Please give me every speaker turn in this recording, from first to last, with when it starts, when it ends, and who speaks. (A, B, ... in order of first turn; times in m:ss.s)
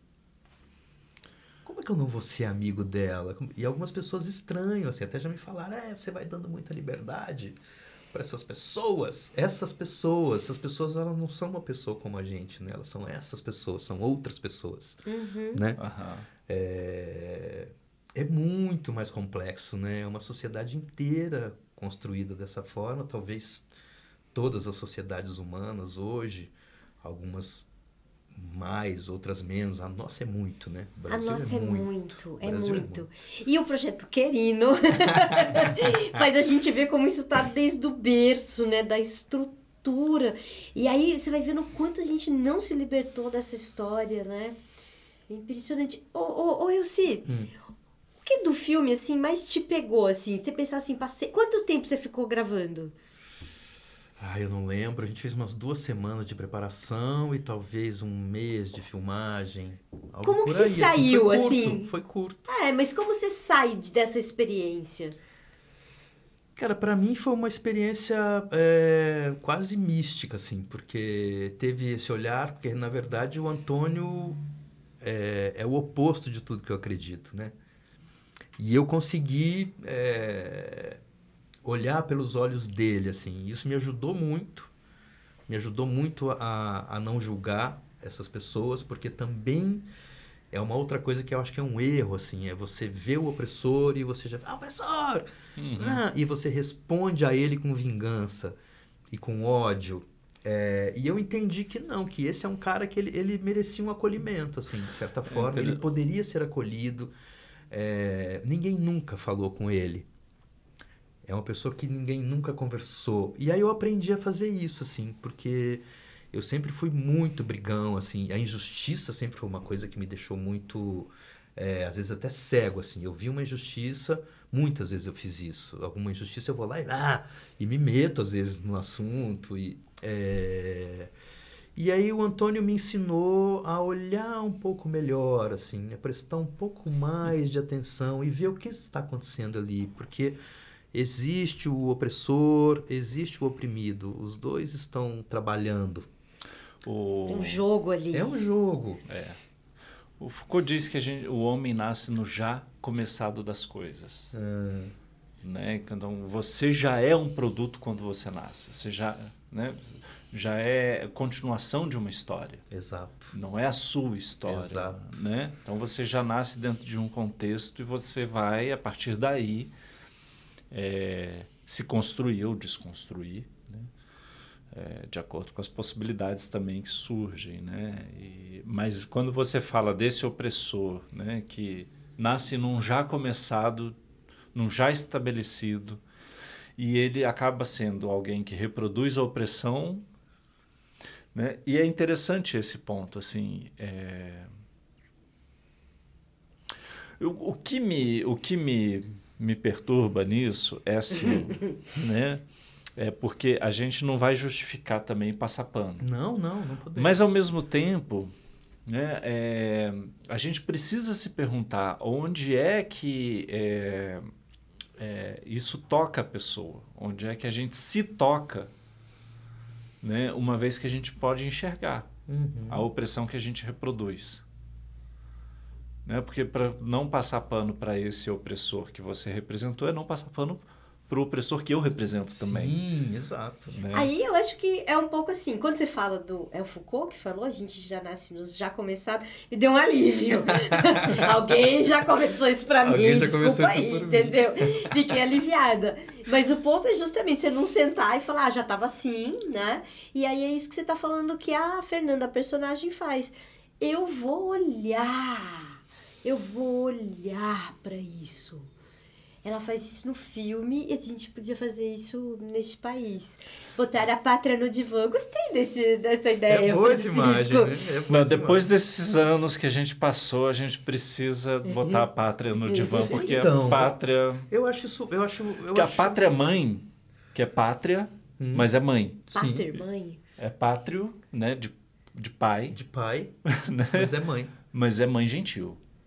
0:01.6-0:07.6 A
0:08.1-0:15.8 A
0:15.0-0:15.6 B
0:15.8-0:16.3 C
0:16.5-0:23.6 A
0:24.3-0:27.7 A
0:28.3-0:33.1 A
0:31.1-0:44.6 B
0:35.1-0:36.2 A
0:45.3-0:47.2 B
0:47.2-0:47.5 A
0:48.2-0:52.9 B
0:54.2-1:02.5 A
1:00.2-1:01.9 B
1:02.5-1:05.1 B
1:06.6-1:14.4 A
1:15.0-1:17.5 A
1:18.6-1:21.0 A
1:21.6-1:24.7 A
1:25.5-1:29.9 A
1:30.5-1:38.6 A
1:35.6-1:36.0 C
1:39.1-1:47.1 A
1:45.3-1:45.8 C
1:47.7-1:50.1 A
1:51.2-2:11.1 A
2:11.7-2:20.4 A
2:20.9-2:26.1 A
2:26.8-2:27.6 C
2:27.3-2:28.3 B
2:28.1-2:29.0 A
2:29.1-2:29.4 C
2:30.2-2:34.3 C
2:34.3-2:34.9 A
2:35.4-2:42.6 C
2:42.7-2:43.3 A
2:43.3-2:49.7 C
2:44.5-2:45.1 A
2:50.7-2:53.9 C
2:54.7-3:03.9 C
3:04.5-3:06.0 C
3:06.8-3:10.0 C
3:11.3-3:14.5 C
3:17.2-3:22.4 C
3:23.0-3:26.1 C
3:26.0-3:27.4 A
3:27.0-3:28.3 C
3:28.8-3:34.3 C
3:35.0-3:38.7 C
3:40.0-3:42.1 C
3:42.3-3:42.8 A
3:42.7-3:44.4 C
3:46.0-3:52.8 C
3:52.4-3:53.8 A
3:53.7-3:54.1 C
3:53.9-4:18.7 B
4:01.0-4:01.3 A
4:02.8-4:05.0 A
4:19.4-4:27.7 B
4:26.5-4:28.7 A
4:28.1-4:34.5 C
4:31.7-4:32.0 B
4:32.6-4:33.4 B
4:32.8-4:34.0 A
4:34.5-4:36.2 A
4:35.7-4:39.3 C
4:38.4-4:38.7 A
4:39.3-4:40.2 B
4:39.3-4:39.7 A
4:40.4-4:42.8 C
4:42.7-4:43.3 A
4:43.4-4:44.1 C
4:43.9-4:44.5 A
4:44.7-4:45.8 C